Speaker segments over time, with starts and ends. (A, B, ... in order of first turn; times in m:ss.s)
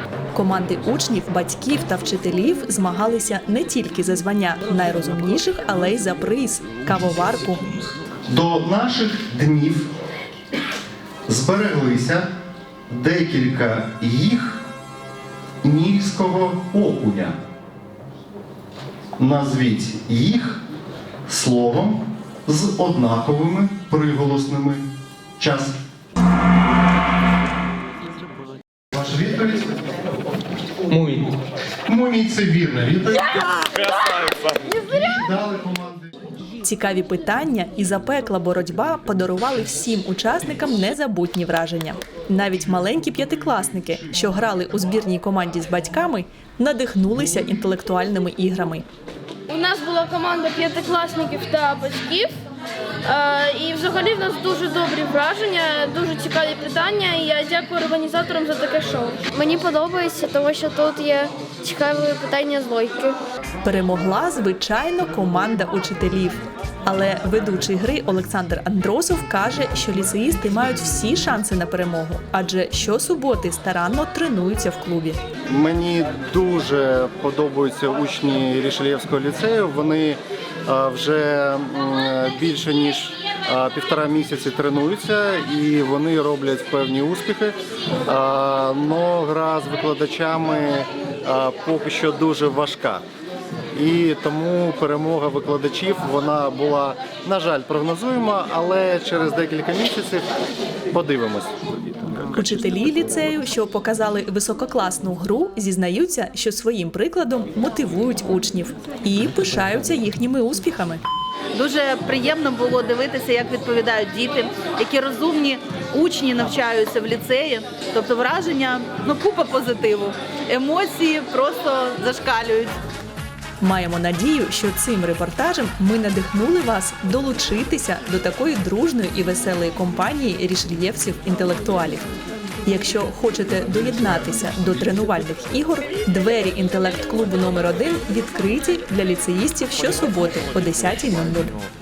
0:00.3-0:07.8 A
0:08.3-0:09.9 B
0:11.3-0:12.2 B
0:12.9-0:14.6 B
0:15.6-0:17.4 B
0:19.2-0:20.6 B
0:21.3-0:25.8 B
0:28.9-0:29.8 B
0:30.9-0:31.3 B
0:31.9-0:36.1 B
0:36.6-0:48.8 A
0:49.5-0:52.3 C
0:53.0-0:59.3 C
0:59.3-1:03.2 D
1:03.6-1:15.2 A
1:15.5-1:27.6 B
1:28.1-1:33.0 B
1:33.7-1:40.2 B
1:40.9-1:41.5 B
1:42.3-1:51.0 A
1:51.5-2:02.8 E
2:03.6-2:12.0 A
2:12.6-2:21.6 A